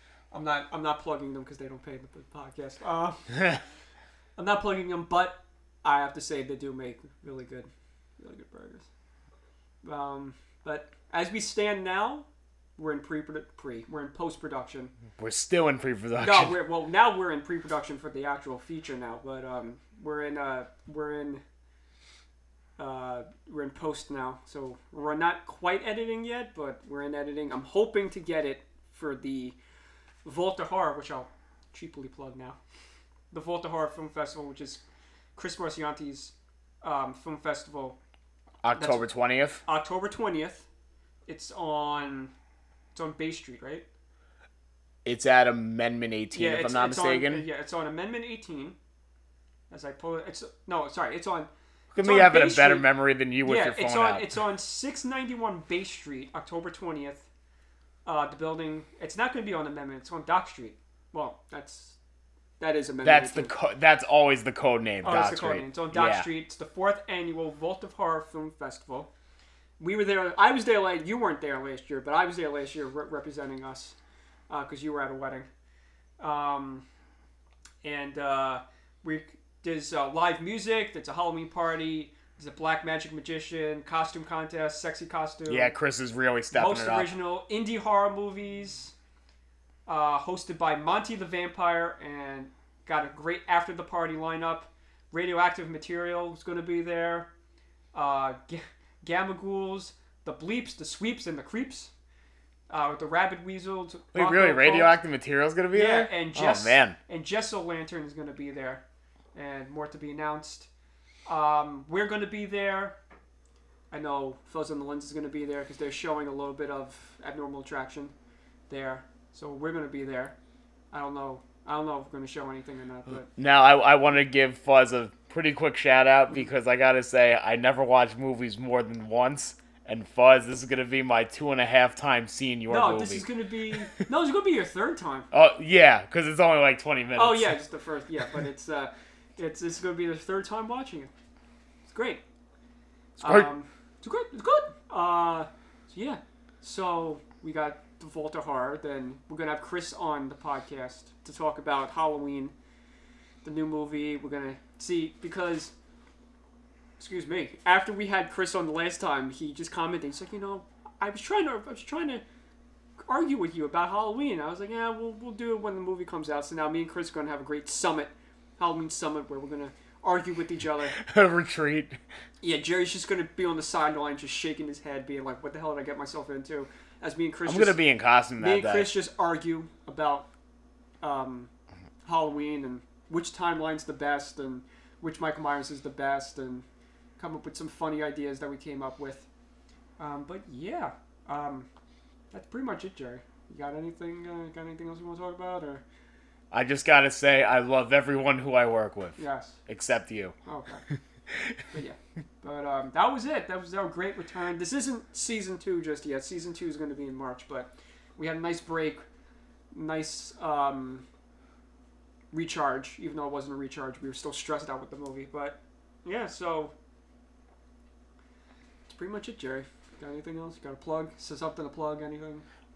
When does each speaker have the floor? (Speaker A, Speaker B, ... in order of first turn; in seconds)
Speaker A: 0.3-3.6, 4.4-8.9, 9.8-14.9, 16.2-21.4, 22.8-29.6, 30.2-32.6, 33.3-34.8, 35.4-38.0, 38.7-39.0, 39.6-40.7, 41.3-42.3, 42.9-43.8, 46.3-48.8, 49.7-52.9, 53.4-57.3, 58.0-62.0, 62.6-63.5, 65.0-69.1, 69.8-74.0, 74.5-75.5, 76.2-76.8, 77.8-85.7, 86.5-88.9, 89.9-97.3, 97.9-101.9, 102.7-104.9, 105.7-110.7, 111.3-113.0, 113.9-118.1, 118.7-120.3, 120.9-123.3, 132.7-135.3, 137.1-141.1, 141.9-142.2, 143.2-152.5, 153.4-155.7, 157.0-162.2, 163.1-170.9, 172.4-177.8, 178.4-180.3, 181.0-181.5, 182.0-186.6, 187.2-189.3, 190.0-191.7, 192.3-195.8, 199.2-199.6, 200.4-200.8, 201.7-209.0, 209.7-211.1, 212.3-216.7, 218.9-222.4
Speaker B: 15.2-16.6, 38.6-39.6, 45.0-47.4, 51.9-54.2, 63.0-66.3, 85.5-87.1, 104.1-107.0, 123.3-133.2, 135.3-137.6, 143.2-143.5, 170.9-172.0, 177.4-178.9, 196.5-200.3, 200.9-201.6